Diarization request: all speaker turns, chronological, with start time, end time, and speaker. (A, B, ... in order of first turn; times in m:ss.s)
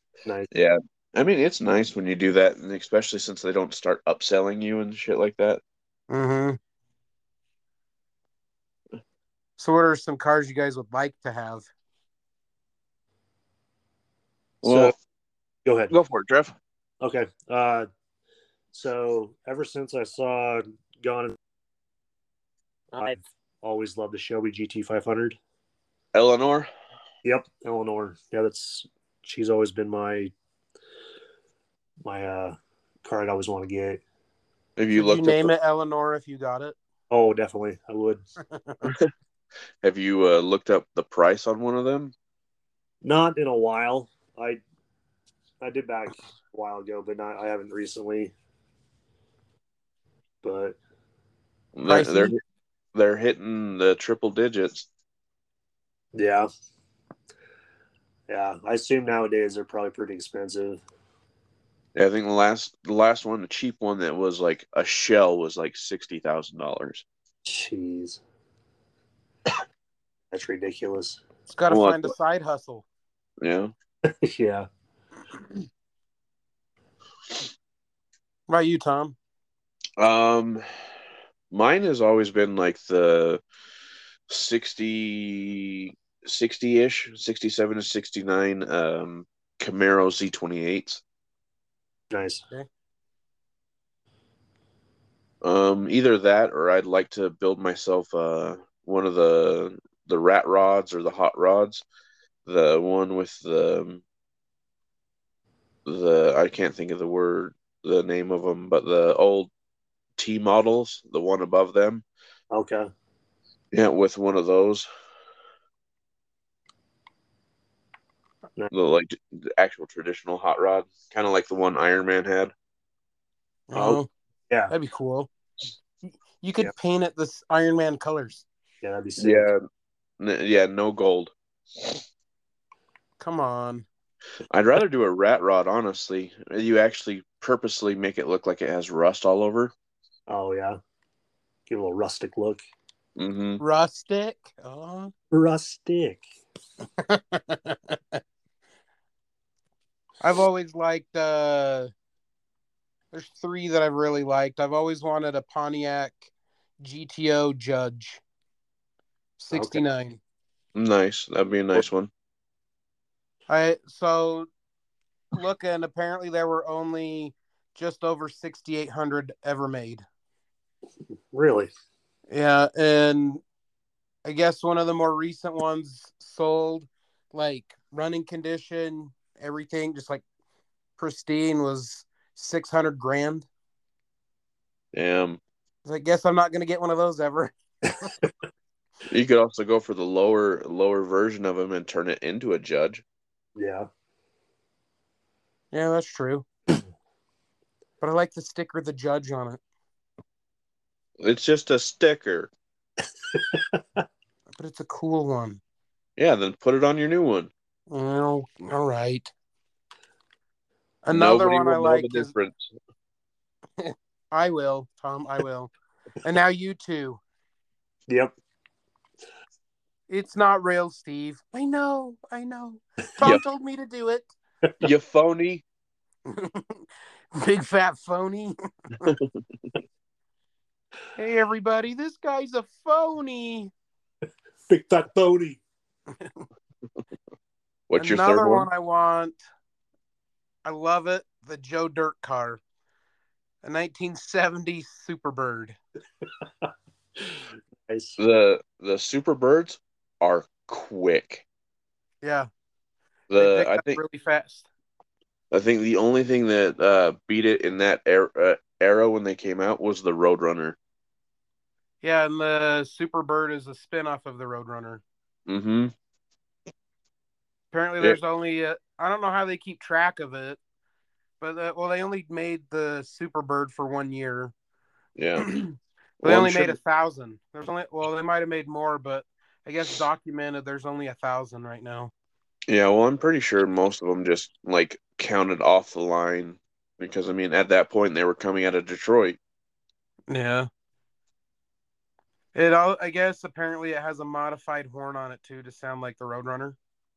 0:00.5-0:05.6 A
0:06.1-0:06.6 B
0:09.6-0:11.7 B
0:14.6-0:15.0 A
0:14.6-0:14.9 C
0:15.7-0:15.9 C
0:15.9-0:16.6 A
0:17.0-0:17.9 C
0:18.7-0:21.4 C
0:22.9-0:25.4 C
0:26.1-0:26.7 A
0:27.2-0:30.3 C
0:32.0-0:34.0 C
0:34.8-0:35.5 A
0:34.9-0:36.8 B
0:37.1-0:38.2 C
0:38.8-0:39.1 A
0:39.8-0:42.1 A
0:43.0-0:44.6 C
0:45.6-0:48.3 C
0:50.4-0:50.8 C
0:51.8-0:52.4 A
0:51.9-0:52.4 B
0:52.9-0:54.9 A
0:56.1-0:56.5 C
0:58.3-1:00.8 C
1:02.0-1:07.0 A
1:07.4-1:08.2 C
1:10.3-1:11.2 C
1:11.5-1:12.8 B
1:11.7-1:12.1 A
1:13.4-1:13.7 A
1:14.0-1:14.7 C
1:18.5-1:19.2 B
1:20.0-1:20.6 A
1:21.5-1:23.4 A
1:24.3-1:31.0 A
1:32.1-1:32.4 C
1:35.4-1:41.8 A
1:42.5-1:44.0 A
1:45.9-1:49.5 A
1:50.2-1:52.0 A
1:52.5-1:52.9 C
1:53.7-1:54.9 A
1:58.7-2:02.5 A
2:03.7-2:04.1 B
2:03.8-2:04.0 A
2:04.7-2:05.3 B
2:06.4-2:08.4 B
2:08.8-2:09.5 C
2:09.2-2:09.6 A
2:10.2-2:12.0 A
2:13.2-2:13.9 B
2:14.5-2:19.7 A
2:20.3-2:20.8 C
2:21.7-2:22.6 C
2:23.2-2:23.6 A
2:23.6-2:25.1 B
2:25.3-2:26.2 C
2:27.0-2:28.2 B
2:30.2-2:31.9 B
2:33.1-2:36.3 B
2:36.8-2:38.2 B
2:39.4-2:40.2 B
2:39.5-2:39.8 C
2:40.8-2:42.1 A
2:43.5-2:44.5 B
2:45.3-2:50.0 B
2:51.3-2:51.7 C
2:52.3-2:53.4 B
2:54.2-3:00.2 B
3:01.0-3:03.5 B
3:04.9-3:05.4 A
3:05.8-3:08.1 B
3:09.1-3:13.0 A
3:13.6-3:13.9 C
3:15.7-3:16.5 B
3:18.0-3:19.6 B
3:21.2-3:22.5 A
3:23.3-3:24.0 C
3:24.6-3:25.6 B
3:26.2-3:27.5 A
3:27.9-3:29.3 B
3:31.0-3:32.3 B
3:31.1-3:32.7 A
3:33.8-3:35.7 B
3:36.2-3:37.2 B
3:38.1-3:38.3 C
3:40.1-3:44.3 B
3:44.8-3:45.6 A
3:46.3-3:49.2 B
3:49.0-3:49.4 A
3:51.2-3:53.7 B
3:54.7-3:55.6 C
3:57.9-3:58.7 A
3:58.0-3:59.4 B
4:00.6-4:02.6 B
4:03.6-4:05.8 B
4:07.2-4:08.2 C
4:08.2-4:11.4 A
4:12.2-4:12.5 B
4:13.3-4:14.0 A
4:13.4-4:14.7 B
4:15.5-4:20.8 A
4:22.0-4:25.0 B
4:25.5-4:25.9 A
4:27.7-4:30.6 B
4:31.4-4:34.5 B
4:35.2-4:35.5 A
4:35.4-4:42.1 B
4:36.2-4:36.8 A
4:42.7-4:49.4 A
4:50.3-4:50.7 B
4:52.5-4:56.8 B